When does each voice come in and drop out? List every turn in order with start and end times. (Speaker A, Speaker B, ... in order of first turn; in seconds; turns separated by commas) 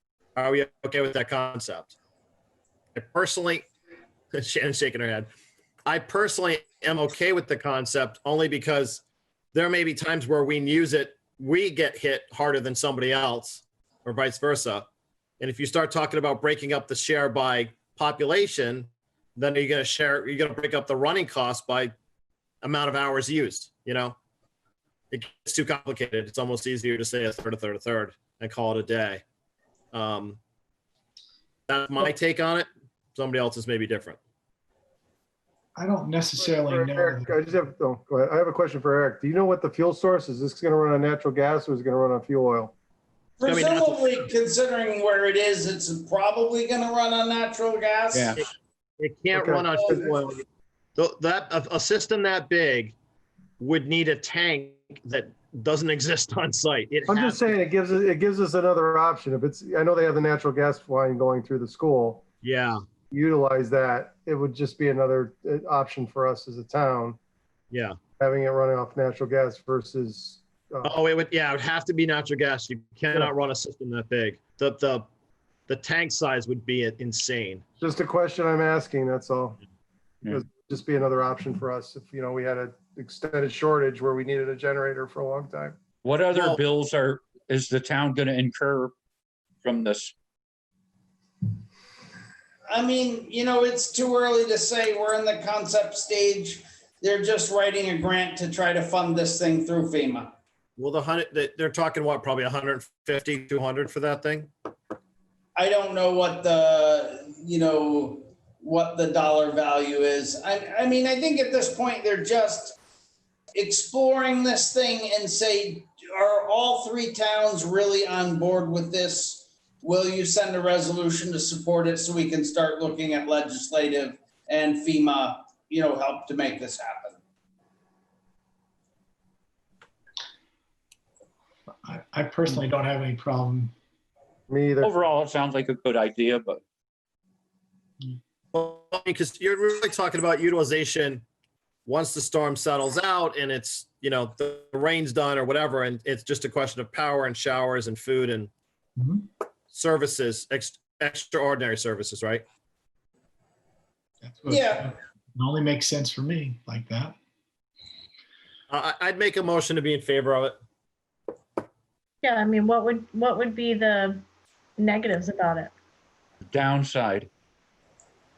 Speaker A: 0.4-1.9, Speaker A: 3.0-3.7, Speaker A: 4.3-5.3, Speaker A: 5.9-9.0, Speaker A: 9.5-14.9, Speaker A: 15.4-21.9, Speaker A: 22.6-24.2, Speaker A: 25.1-29.2, Speaker A: 29.9-30.4, Speaker A: 31.7-34.2, Speaker B: 35.8-37.4, Speaker C: 36.4-42.7, Speaker D: 43.4-48.5, Speaker A: 43.5-44.2, Speaker E: 48.1-48.4, Speaker A: 49.0-50.4, Speaker C: 49.3-50.2, Speaker A: 51.0-53.0, Speaker A: 53.6-57.4, Speaker C: 57.1-62.2, Speaker A: 62.4-62.8, Speaker C: 63.1-67.2, Speaker A: 67.7-68.0, Speaker C: 68.2-70.9, Speaker A: 70.8-75.1, Speaker A: 75.7-77.6, Speaker C: 77.8-79.6, Speaker C: 80.3-85.8, Speaker E: 86.0-88.9, Speaker A: 86.3-86.6, Speaker E: 89.6-90.1, Speaker D: 92.7-100.3, Speaker A: 100.8-104.5, Speaker D: 105.6-112.8, Speaker D: 113.5-127.2, Speaker B: 131.8-133.7, Speaker C: 134.5-134.9, Speaker E: 134.8-136.6, Speaker A: 138.5-141.2, Speaker A: 141.9-148.5, Speaker B: 149.0-149.2, Speaker A: 149.7-152.4, Speaker B: 154.2-157.2, Speaker D: 154.5-154.9, Speaker A: 158.7-160.6, Speaker F: 162.2-164.2, Speaker F: 164.8-165.7, Speaker E: 166.5-167.3